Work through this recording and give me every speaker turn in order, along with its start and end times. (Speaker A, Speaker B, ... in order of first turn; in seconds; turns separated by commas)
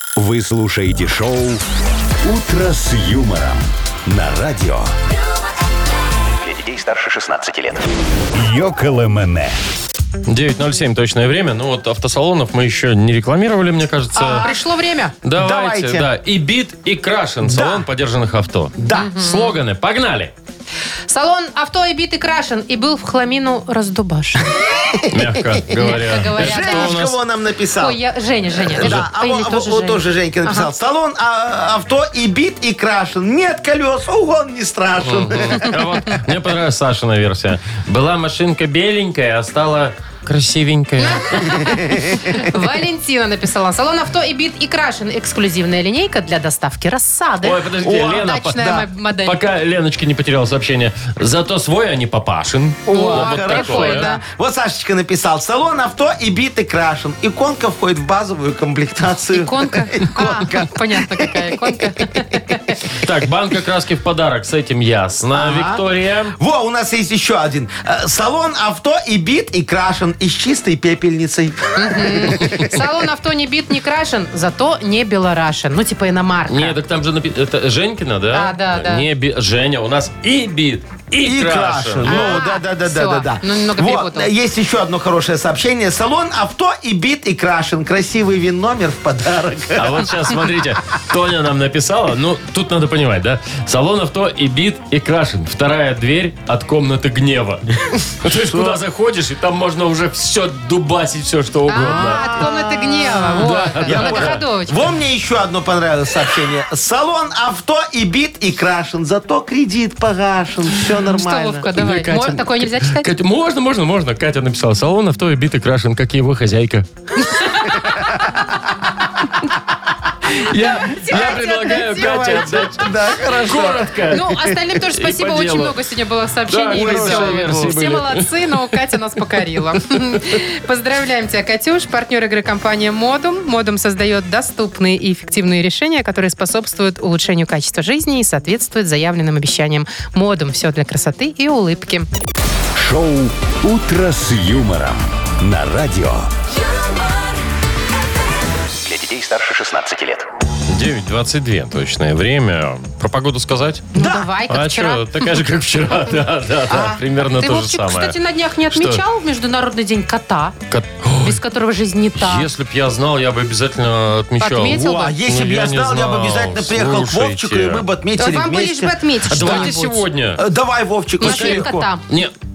Speaker A: 0.1-1.6, Speaker A: 2.2-4.9, Speaker B: 6.4-7.8, Speaker A: 8.3-9.6, Speaker C: 10.3-14.5, Speaker D: 14.2-14.5, Speaker E: 14.2-15.2, Speaker C: 15.2-20.3, Speaker D: 15.3-16.1, Speaker D: 17.4-17.8, Speaker D: 18.8-19.2, Speaker E: 18.9-19.6, Speaker E: 21.1-24.5, Speaker D: 24.5-25.2, Speaker C: 25.1-27.2, Speaker E: 25.8-27.0, Speaker D: 25.9-28.0, Speaker E: 27.8-30.7, Speaker D: 28.5-35.8, Speaker C: 28.8-29.1, Speaker C: 35.0-41.6, Speaker E: 41.0-49.4, Speaker C: 47.4-54.1, Speaker D: 47.8-48.8, Speaker D: 52.9-61.7, Speaker E: 52.9-54.2, Speaker E: 59.3-62.8, Speaker C: 63.0-66.3, Speaker D: 65.3-65.8, Speaker D: 66.4-72.8, Speaker E: 71.8-76.8, Speaker C: 76.5-82.4, Speaker E: 78.3-79.0, Speaker D: 81.2-90.1, Speaker E: 82.0-84.3, Speaker C: 89.8-102.5, Speaker D: 98.2-98.8, Speaker E: 101.7-104.9, Speaker D: 101.8-111.7, Speaker C: 103.3-104.4, Speaker E: 111.1-113.1, Speaker C: 111.7-116.8, Speaker E: 117.2-118.4, Speaker C: 120.3-125.8, Speaker E: 120.8-122.9, Speaker D: 121.9-124.5, Speaker E: 124.1-142.1, Speaker C: 126.5-128.6, Speaker D: 126.7-127.7, Speaker A: 142.8-146.3, Speaker B: 148.8-150.2, Speaker C: 150.7-153.9, Speaker E: 153.9-155.2, Speaker D: 153.9-154.3, Speaker C: 154.5-158.2, Speaker D: 156.7-157.0, Speaker E: 157.2-160.6, Speaker C: 158.7-159.0, Speaker C: 160.7-161.4, Speaker E: 161.2-162.5, Speaker C: 162.2-167.8, Speaker E: 164.4-165.2, Speaker D: 164.7-169.8, Speaker E: 168.2-170.0, Speaker C: 169.3-170.4, Speaker D: 170.4-171.9, Speaker E: 171.2-172.0, Speaker C: 171.2-172.3